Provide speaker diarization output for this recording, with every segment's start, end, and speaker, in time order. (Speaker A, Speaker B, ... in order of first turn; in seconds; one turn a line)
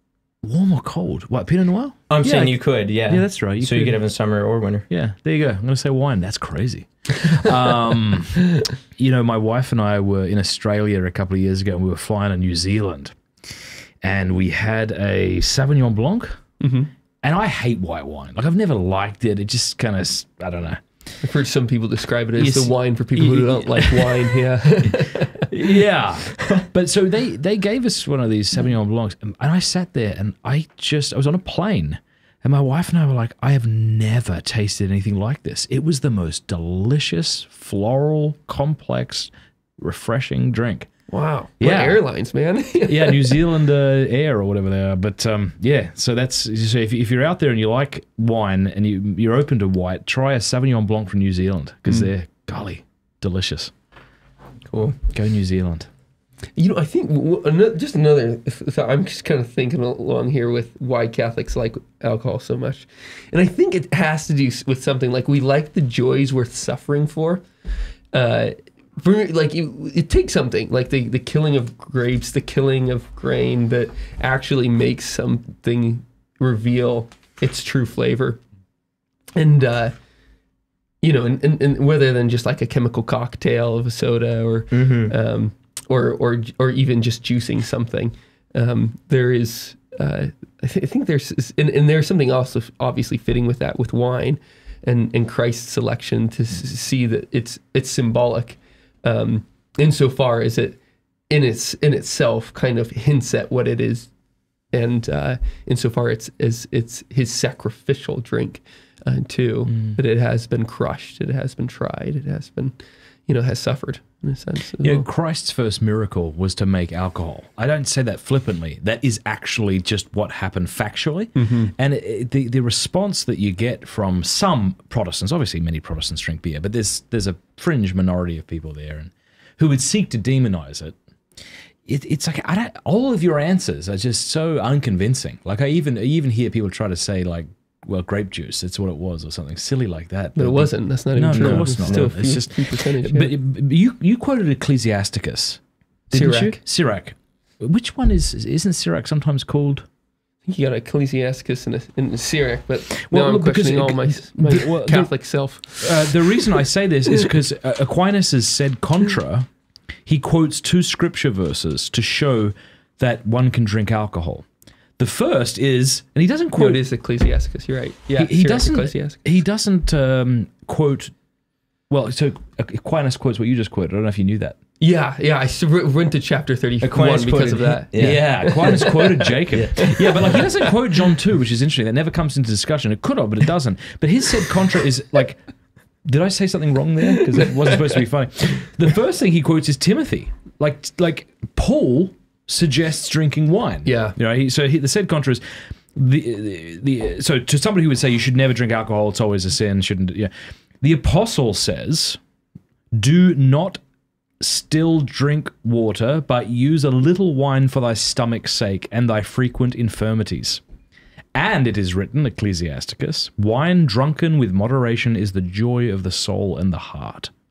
Speaker A: 0.4-4.0
Speaker B: 2.1-4.9
Speaker A: 4.9-16.4
Speaker C: 16.6-16.9
Speaker A: 17.2-20.8
Speaker C: 21.2-25.5
Speaker A: 22.4-40.9
Speaker C: 41.1-43.4
Speaker A: 41.6-42.0
Speaker A: 42.9-53.7
Speaker B: 54.7-55.0
Speaker A: 55.1-55.9
Speaker C: 56.6-67.4
Speaker C: 68.1-78.4
Speaker C: 79.3-79.9
Speaker C: 81.0-100.8
Speaker B: 84.7-85.1
Speaker C: 101.3-104.1
Speaker C: 104.7-112.8
Speaker A: 109.7-110.0
Speaker C: 113.3-115.1
Speaker A: 114.8-130.9
Speaker C: 121.3-121.7
Speaker A: 131.8-149.8
Speaker C: 140.3-143.3
Speaker B: 141.3-142.1
Speaker C: 146.1-146.6
Speaker C: 150.5-156.4
Speaker A: 153.0-155.1
Speaker A: 155.8-159.5
Speaker A: 160.1-164.4
Speaker A: 165.0-166.8
Speaker C: 166.6-169.2
Speaker A: 168.2-171.1
Speaker A: 171.9-174.6
Speaker C: 174.8-180.3
Speaker B: 176.8-178.7
Speaker A: 178.0-185.4
Speaker B: 179.5-180.4
Speaker A: 186.0-195.4
Speaker C: 193.8-194.1
Speaker A: 195.9-202.2
Speaker A: 202.9-203.8
Speaker A: 204.4-210.6
Speaker A: 211.3-217.3